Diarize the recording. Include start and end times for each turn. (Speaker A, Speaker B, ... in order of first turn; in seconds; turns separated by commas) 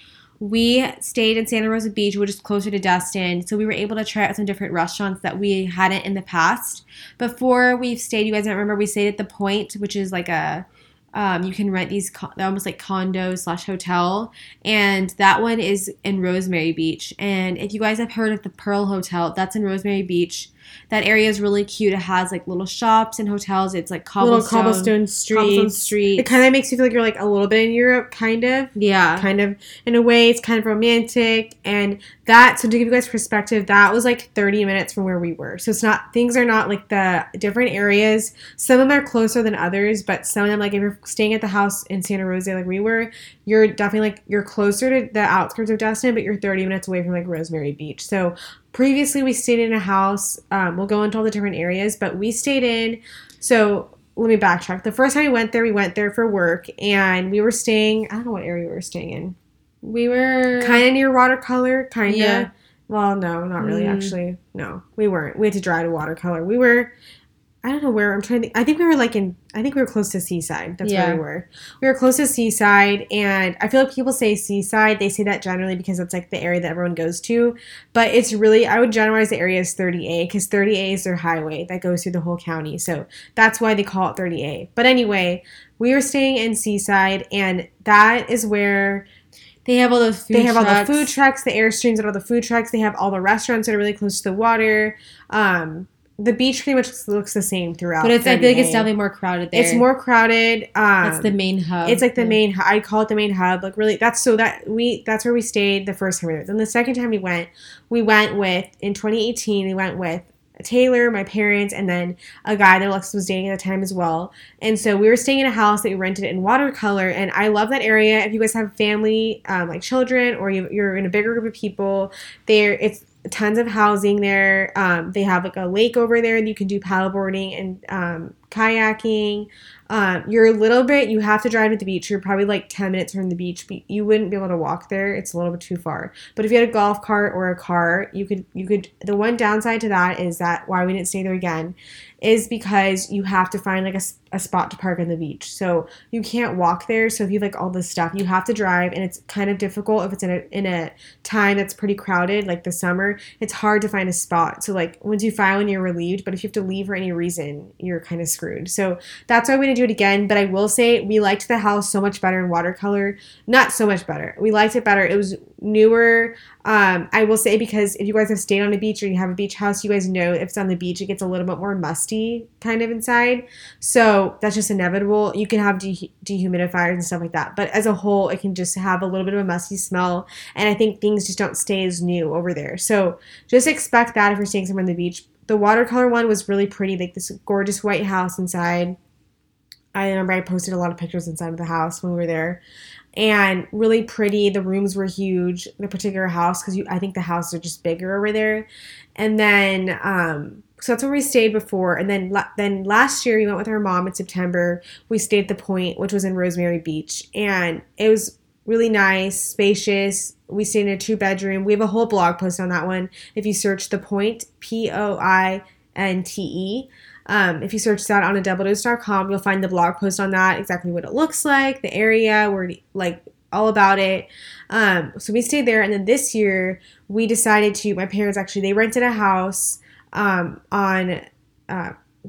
Speaker A: 0.4-26.3, Speaker B: 24.2-59.4, Speaker A: 28.8-29.3, Speaker A: 59.8-60.8, Speaker B: 60.6-66.9, Speaker A: 62.1-62.5, Speaker A: 63.6-64.2, Speaker B: 67.6-89.1, Speaker A: 70.8-71.2, Speaker A: 89.7-91.1, Speaker B: 90.3-98.9, Speaker A: 98.0-99.8, Speaker B: 99.5-101.3, Speaker A: 101.0-102.4, Speaker B: 101.8-189.0, Speaker B: 189.9-192.6, Speaker B: 193.2-231.9